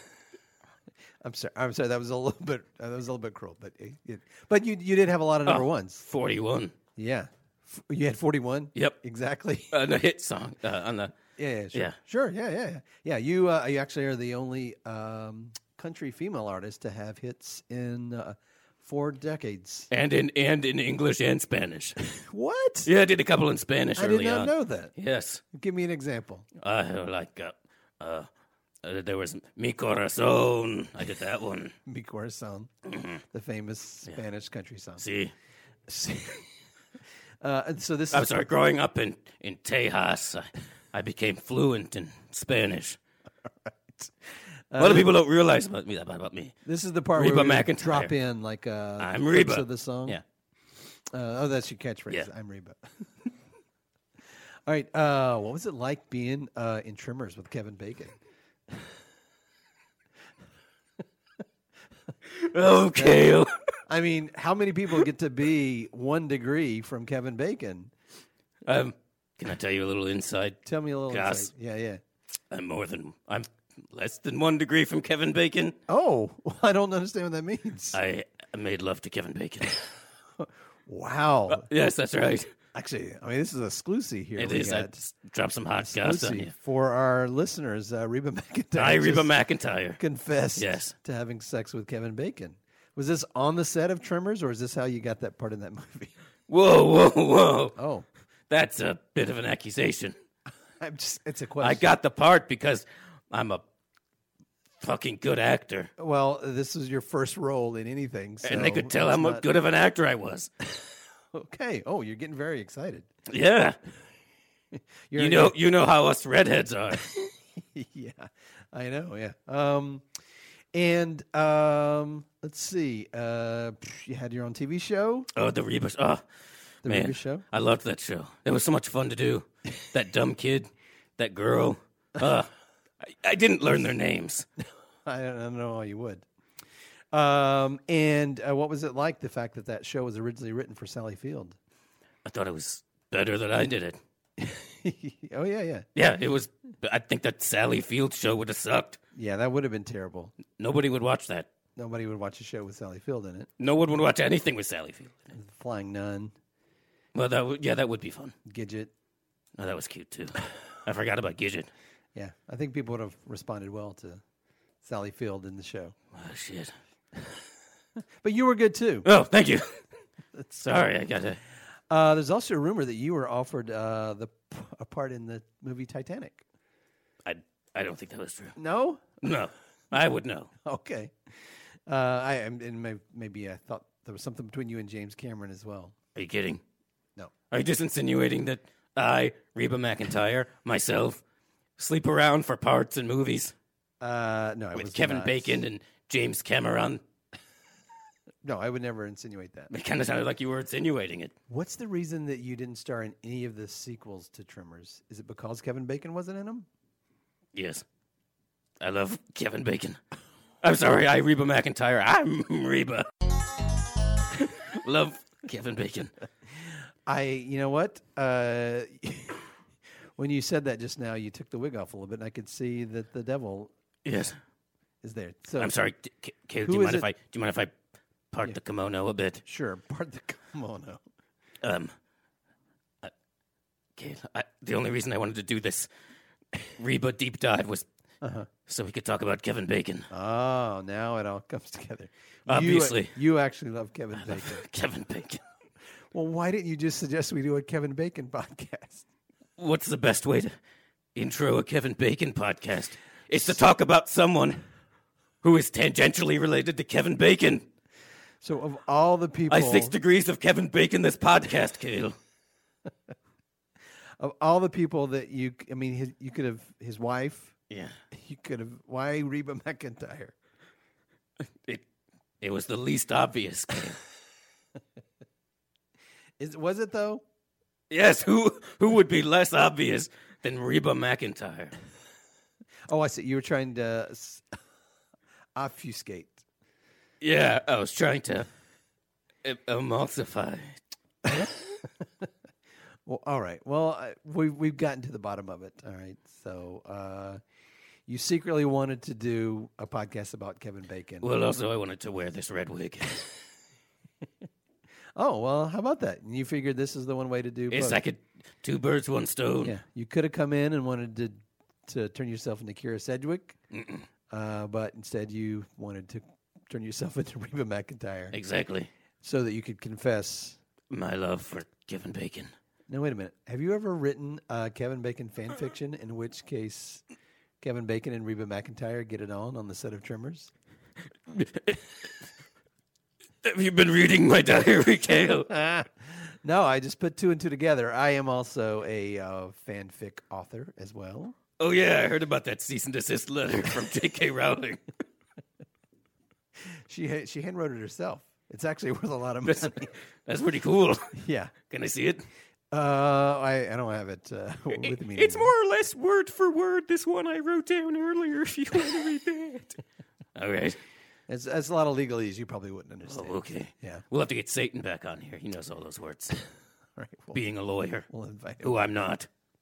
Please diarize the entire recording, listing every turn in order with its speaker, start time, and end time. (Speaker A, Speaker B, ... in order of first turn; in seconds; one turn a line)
Speaker A: 1.2-6.0
Speaker B: 5.5-6.7
Speaker A: 7.0-9.7
Speaker B: 9.7-11.2
Speaker A: 11.4-19.9
Speaker B: 19.9-22.0
Speaker A: 22.1-22.9
Speaker B: 22.9-25.4
Speaker A: 23.9-24.9
Speaker A: 25.5-26.5
Speaker B: 26.6-28.3
Speaker B: 28.8-31.7
Speaker A: 31.9-32.7
Speaker B: 32.9-33.2
Speaker A: 33.3-35.0
Speaker B: 35.0-35.3
Speaker A: 35.9-36.5
Speaker A: 37.4-38.5
Speaker B: 38.1-43.0
Speaker A: 43.5-44.1
Speaker A: 44.7-45.1
Speaker B: 44.8-46.5
Speaker A: 46.6-50.2
Speaker B: 47.1-48.1
Speaker B: 49.0-50.2
Speaker A: 51.1-52.9
Speaker A: 54.6-58.2
Speaker B: 62.3-63.5
Speaker A: 62.9-63.3
Speaker A: 63.9-67.9
Speaker B: 68.7-71.5
Speaker A: 70.7-72.0
Speaker B: 72.5-75.8
Speaker A: 75.9-78.0
Speaker B: 77.9-79.8
Speaker A: 80.4-81.7
Speaker B: 81.5-82.5
Speaker A: 82.7-85.0
Speaker B: 84.4-86.5
Speaker A: 85.8-89.3
Speaker B: 88.8-90.0
Speaker A: 90.0-96.1
Speaker B: 90.6-90.9
Speaker B: 96.5-97.8
Speaker A: 97.8-98.1
Speaker B: 98.5-100.2
Speaker A: 100.8-101.9
Speaker B: 101.6-103.6
Speaker B: 104.8-105.9
Speaker A: 106.0-109.5
Speaker B: 108.4-110.5
Speaker A: 111.3-113.1
Speaker B: 113.3-113.8
Speaker A: 114.7-115.6
Speaker B: 115.2-117.1
Speaker A: 117.0-120.1
Speaker A: 120.7-125.3
Speaker B: 125.3-126.2
Speaker A: 126.8-127.4
Speaker B: 126.8-132.5
Speaker B: 133.0-134.4
Speaker A: 135.1-136.2
Speaker A: 137.1-141.6
Speaker B: 142.2-144.0
Speaker A: 144.4-145.8
Speaker B: 145.9-149.0
Speaker A: 149.2-150.3
Speaker B: 150.6-151.5
Speaker A: 151.8-153.5
Speaker B: 153.6-155.3
Speaker A: 155.3-156.3
Speaker B: 157.2-158.3
Speaker A: 158.4-158.9
Speaker B: 159.6-161.7
Speaker A: 162.2-164.2
Speaker A: 164.8-165.9
Speaker B: 166.1-166.7
Speaker A: 168.2-169.1
Speaker B: 169.1-169.8
Speaker A: 170.3-170.8
Speaker B: 170.6-171.4
Speaker A: 171.9-176.4
Speaker B: 177.2-178.6
Speaker A: 178.6-179.0
Speaker B: 179.2-180.5
Speaker A: 180.7-185.9
Speaker B: 186.2-186.6
Speaker B: 187.5-191.2
Speaker B: 191.8-193.6
Speaker A: 194.0-195.6
Speaker B: 194.7-197.0
Speaker A: 198.4-199.7
Speaker B: 199.7-201.3
Speaker A: 201.5-206.7
Speaker B: 207.5-207.8
Speaker B: 208.8-210.0
Speaker B: 210.6-213.1
Speaker B: 214.3-216.1
Speaker A: 216.6-219.5
Speaker A: 220.2-223.7
Speaker B: 224.1-224.4
Speaker A: 225.0-225.7
Speaker B: 225.6-227.7
Speaker A: 226.7-227.1
Speaker B: 228.3-229.4
Speaker A: 229.4-231.0
Speaker B: 231.6-231.9
Speaker B: 234.0-235.9
Speaker B: 236.6-237.8
Speaker A: 238.2-238.5
Speaker B: 238.7-240.1
Speaker A: 240.1-244.6
Speaker B: 242.5-243.2
Speaker B: 244.2-245.4
Speaker A: 246.1-249.1
Speaker B: 249.6-250.5
Speaker B: 251.2-254.6
Speaker B: 255.4-257.6
Speaker A: 258.4-259.9
Speaker B: 259.5-262.2
Speaker A: 264.2-267.6
Speaker B: 267.7-267.9
Speaker A: 268.1-270.4
Speaker B: 272.4-274.0
Speaker A: 276.4-277.2
Speaker B: 277.9-281.7
Speaker A: 282.9-284.6
Speaker A: 285.6-286.4
Speaker B: 287.2-288.5
Speaker B: 289.4-290.8
Speaker A: 291.2-292.3
Speaker A: 293.1-297.4
Speaker A: 298.1-301.3
Speaker B: 301.2-303.3
Speaker A: 305.1-308.0
Speaker B: 307.7-309.8
Speaker A: 309.6-313.6
Speaker B: 313.7-314.1
Speaker A: 314.3-318.4
Speaker B: 318.3-318.9
Speaker A: 319.2-320.6
Speaker B: 320.9-322.5
Speaker A: 322.9-327.0
Speaker A: 327.6-330.5
Speaker B: 331.3-332.2
Speaker B: 333.4-335.5
Speaker A: 335.5-341.4
Speaker B: 341.6-344.9
Speaker A: 346.6-349.9
Speaker B: 349.4-351.2
Speaker A: 351.1-351.6
Speaker B: 351.7-352.3
Speaker A: 352.7-355.5
Speaker C: 354.7-359.8
Speaker B: 360.4-360.8
Speaker A: 361.3-364.0
Speaker B: 363.1-366.4
Speaker A: 367.0-367.4
Speaker B: 367.3-368.1
Speaker A: 368.1-368.8
Speaker B: 368.6-369.3